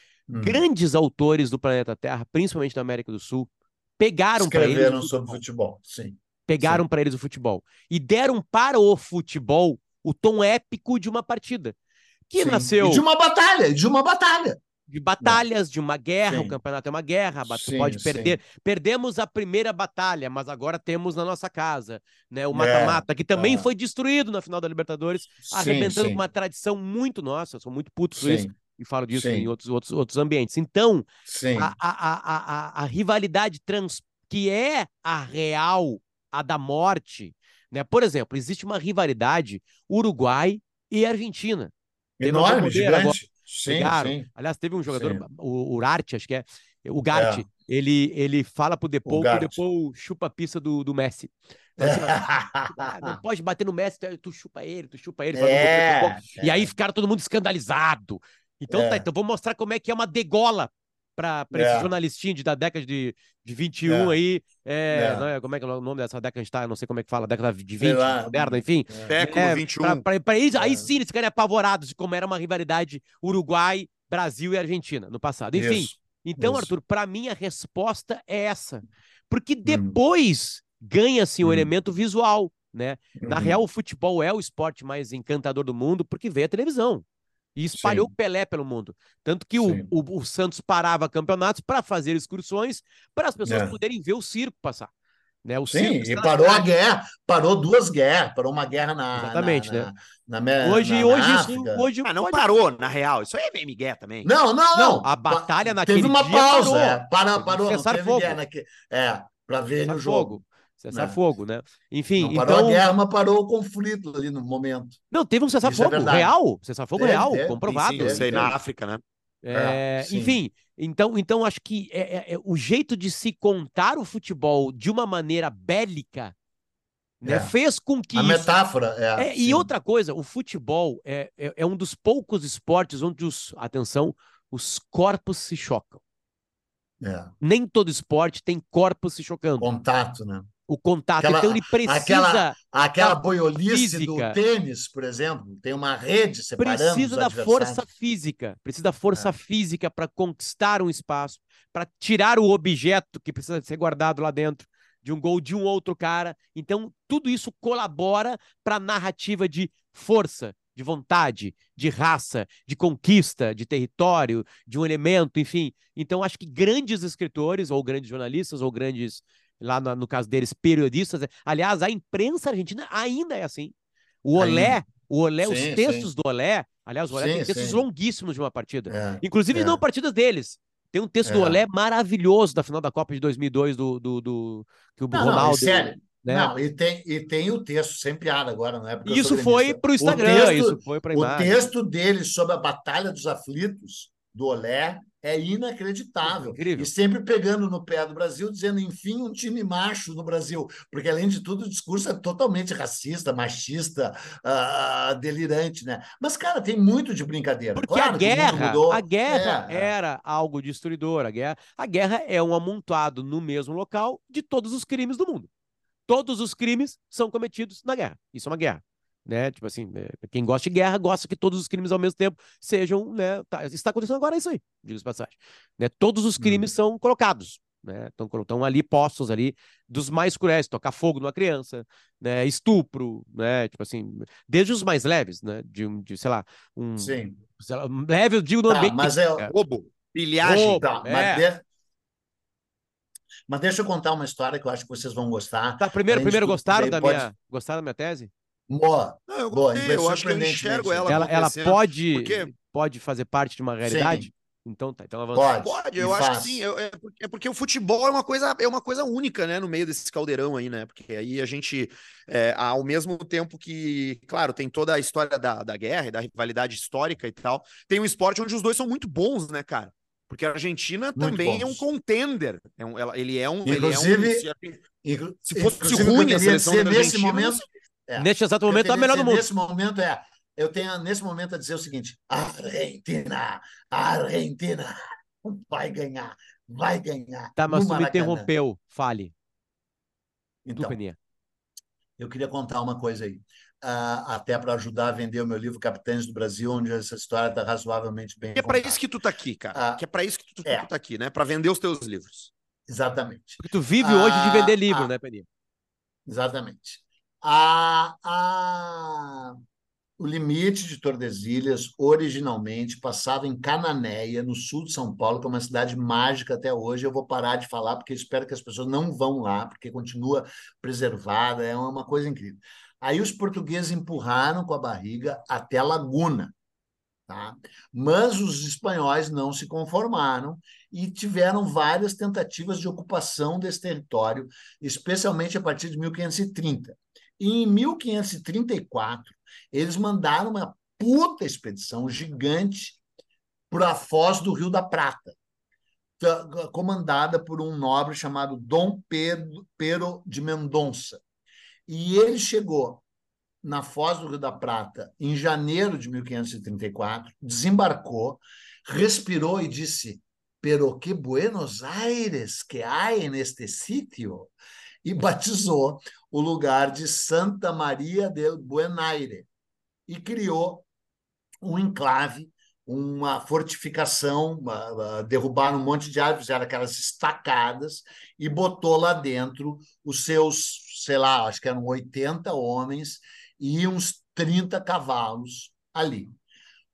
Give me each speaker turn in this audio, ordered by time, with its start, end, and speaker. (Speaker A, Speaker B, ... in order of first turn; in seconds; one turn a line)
Speaker A: 0.3-0.6
Speaker B: 0.4-5.3
Speaker A: 4.4-6.8
Speaker B: 6.5-11.8
Speaker B: 12.3-13.0
Speaker A: 12.4-14.6
Speaker B: 14.9-87.0
Speaker A: 16.3-16.5
Speaker A: 17.5-18.4
Speaker A: 22.5-23.7
Speaker A: 25.5-26.2
Speaker A: 28.2-28.5
Speaker A: 29.1-29.5
Speaker A: 31.2-31.7
Speaker A: 42.2-44.3
Speaker A: 44.9-45.2
Speaker A: 47.1-47.4
Speaker A: 49.0-49.6
Speaker A: 51.8-53.2
Speaker A: 55.3-56.7
Speaker A: 58.7-59.1
Speaker A: 61.5-61.9
Speaker A: 63.8-64.1
Speaker A: 64.9-65.3
Speaker A: 67.8-69.1
Speaker C: 69.1-70.0
Speaker A: 70.6-70.9
Speaker A: 75.5-76.7
Speaker A: 79.7-80.0
Speaker A: 81.4-81.7
Speaker A: 83.2-83.6
Speaker B: 87.5-94.9
Speaker A: 87.7-88.1
Speaker A: 89.6-89.9
Speaker A: 93.4-93.8
Speaker B: 95.4-96.7
Speaker A: 95.7-101.9
Speaker B: 99.1-99.9
Speaker B: 100.6-102.4
Speaker C: 102.0-104.3
Speaker A: 104.2-110.4
Speaker B: 104.7-108.4
Speaker B: 109.8-112.8
Speaker A: 110.9-111.2
Speaker A: 112.2-115.0
Speaker B: 115.1-118.5
Speaker A: 115.6-116.3
Speaker A: 116.9-118.5
Speaker C: 117.9-119.0
Speaker B: 119.4-126.3
Speaker A: 119.5-120.4
Speaker B: 127.2-128.6
Speaker A: 127.2-127.5
Speaker A: 128.1-129.7
Speaker B: 129.2-136.0
Speaker A: 137.0-137.3
Speaker B: 137.4-139.7
Speaker A: 139.6-140.5
Speaker B: 140.7-144.4
Speaker A: 141.2-147.9
Speaker B: 146.6-173.7
Speaker B: 174.2-186.5
Speaker A: 174.3-174.8
Speaker A: 175.4-176.1
Speaker A: 177.1-177.8
Speaker A: 178.9-179.8
Speaker A: 181.2-181.6
Speaker A: 185.1-209.9
Speaker B: 189.0-191.7
Speaker B: 196.2-196.9
Speaker B: 207.8-215.5
Speaker B: 216.1-239.5
Speaker A: 226.4-226.7
Speaker A: 237.0-237.4
Speaker A: 238.7-239.5
Speaker C: 239.5-240.9
Speaker B: 240.4-241.5
Speaker A: 240.4-241.6
Speaker A: 243.5-247.3
Speaker B: 245.8-248.3
Speaker A: 248.7-251.2
Speaker C: 249.3-252.5
Speaker B: 251.1-255.6
Speaker A: 253.8-254.3
Speaker A: 255.3-256.6
Speaker C: 255.6-274.8
Speaker A: 271.2-271.8
Speaker A: 273.6-274.4
Speaker A: 275.0-288.5
Speaker C: 275.5-277.6
Speaker B: 278.2-279.5
Speaker B: 287.6-289.3
Speaker A: 290.6-291.0
Speaker B: 290.8-291.2
Speaker A: 292.2-299.0
Speaker C: 298.6-302.5
Speaker A: 299.7-300.0
Speaker A: 302.9-305.1
Speaker B: 303.6-305.4
Speaker A: 306.2-309.6
Speaker A: 310.2-326.5
Speaker A: 327.3-343.0
Speaker A: 343.7-345.4
Speaker A: 346.2-351.2
Speaker A: 351.9-353.0
Speaker A: 353.6-369.5
Speaker A: 370.1-370.9
Speaker A: 371.6-386.3